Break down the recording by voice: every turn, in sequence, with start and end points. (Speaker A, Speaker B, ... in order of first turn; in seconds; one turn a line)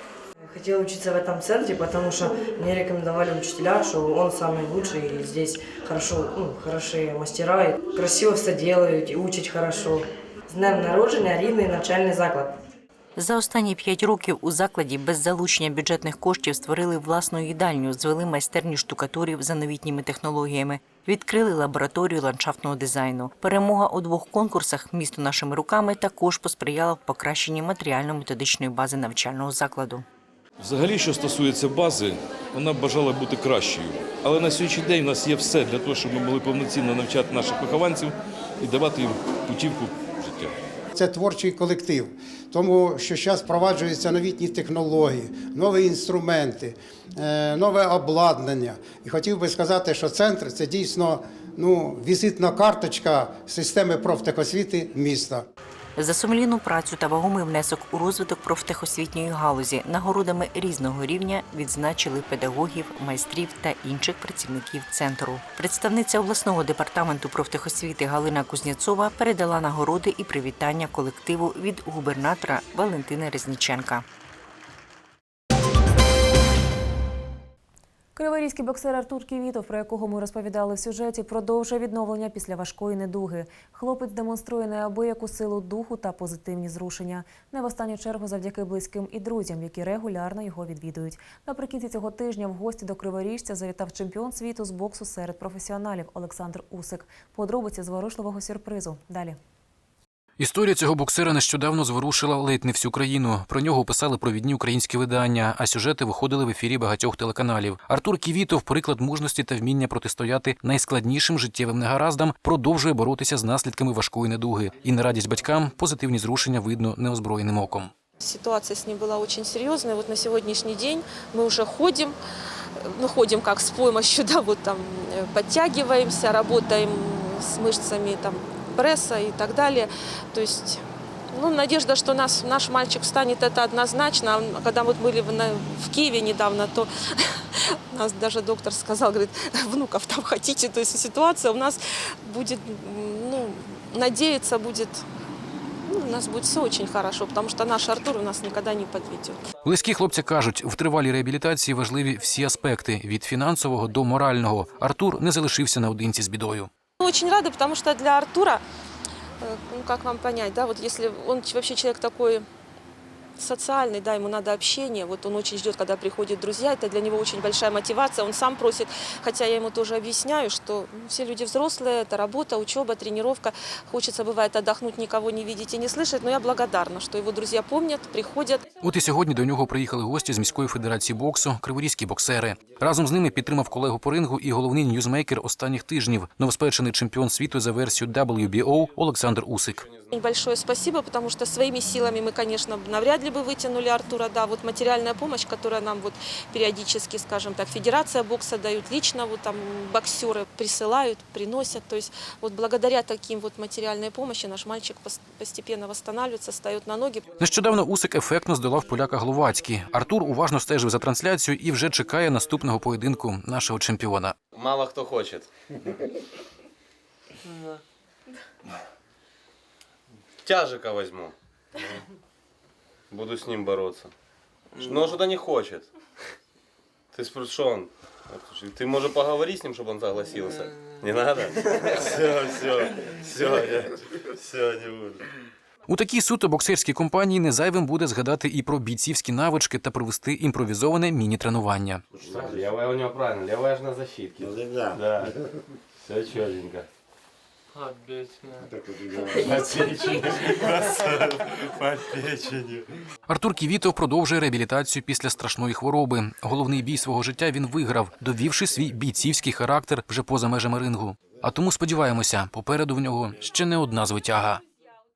Speaker A: 0.5-12.5
Speaker B: 13.2-30.0
Speaker C: 30.6-40.5
Speaker D: 40.9-55.5
Speaker B: 56.0-74.0
Speaker E: 78.2-99.4
Speaker F: 100.4-117.9
Speaker G: 118.2-122.1
Speaker G: 122.9-130.8
Speaker G: 131.3-137.2
Speaker G: 137.9-145.0
Speaker G: 145.9-149.4
Speaker F: 149.6-156.7
Speaker G: 157.0-158.6
Speaker G: 159.4-162.4
Speaker G: 163.4-178.7
Speaker F: 178.8-189.9
Speaker H: 189.8-190.1
Speaker G: 190.1-207.2
Speaker F: 207.4-214.3
Speaker H: 214.5-215.5
Speaker H: 220.4-221.3
Speaker H: 223.1-224.1
Speaker H: 224.8-225.9
Speaker H: 227.1-235.2
Speaker F: 235.9-242.0
Speaker H: 242.2-245.3
Speaker H: 246.0-246.8
Speaker H: 249.4-252.8
Speaker F: 253.3-264.6